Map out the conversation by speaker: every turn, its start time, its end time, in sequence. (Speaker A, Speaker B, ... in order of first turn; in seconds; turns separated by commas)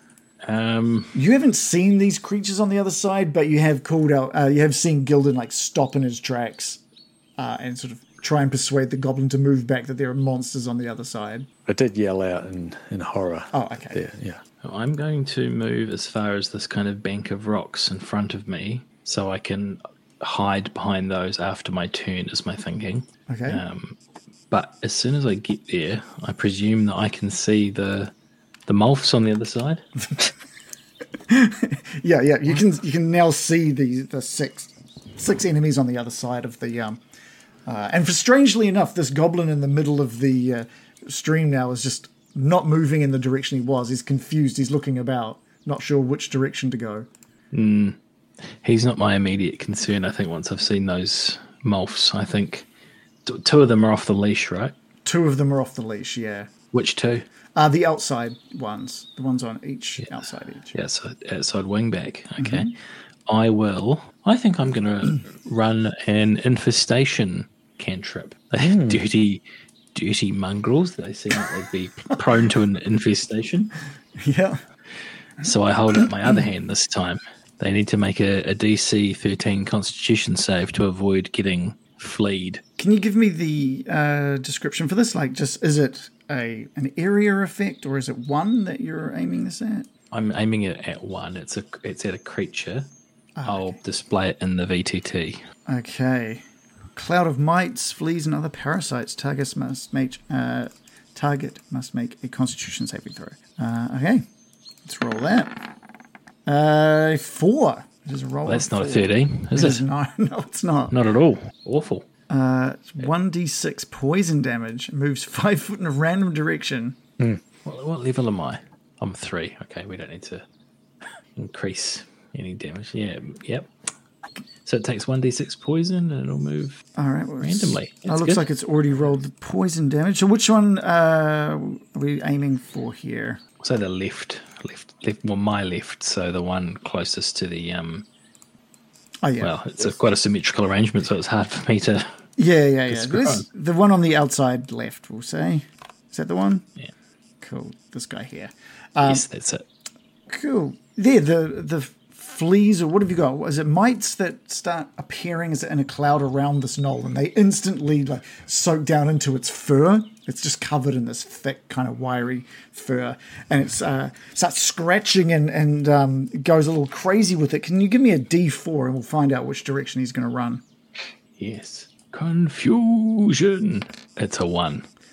Speaker A: 0.4-1.2, Speaker B: 1.1-6.8, Speaker B: 7.4-11.5, Speaker C: 11.7-14.4, Speaker B: 13.5-14.0, Speaker A: 14.6-24.0, Speaker B: 23.3-23.6, Speaker A: 24.5-28.1, Speaker A: 28.7-29.8, Speaker B: 31.3-37.0, Speaker B: 37.7-47.1, Speaker A: 47.5-48.0, Speaker A: 48.6-52.6, Speaker A: 53.2-54.7, Speaker B: 55.0-56.5, Speaker A: 56.7-57.2, Speaker B: 57.5-60.7, Speaker A: 60.7-62.7, Speaker B: 62.4-62.7, Speaker A: 63.3-69.4, Speaker C: 68.6-69.0, Speaker A: 69.9-73.7, Speaker B: 74.2-74.6, Speaker A: 75.4-82.6, Speaker B: 82.8-89.9, Speaker A: 90.1-92.9, Speaker B: 93.4-93.7, Speaker A: 93.4-95.4, Speaker B: 95.7-96.4, Speaker B: 97.0-104.2, Speaker B: 104.8-105.5, Speaker B: 106.5-110.9, Speaker A: 108.5-109.8, Speaker A: 110.9-112.0, Speaker B: 112.3-117.0, Speaker A: 117.6-120.4, Speaker A: 121.4-123.7, Speaker A: 124.6-126.8, Speaker B: 127.0-133.4, Speaker A: 127.4-128.4, Speaker A: 133.6-138.1, Speaker B: 139.2-139.5, Speaker A: 139.4-142.1, Speaker B: 142.4-146.6, Speaker A: 142.9-143.4, Speaker B: 147.4-149.2, Speaker A: 149.0-149.7, Speaker B: 150.3-170.6, Speaker A: 171.4-174.8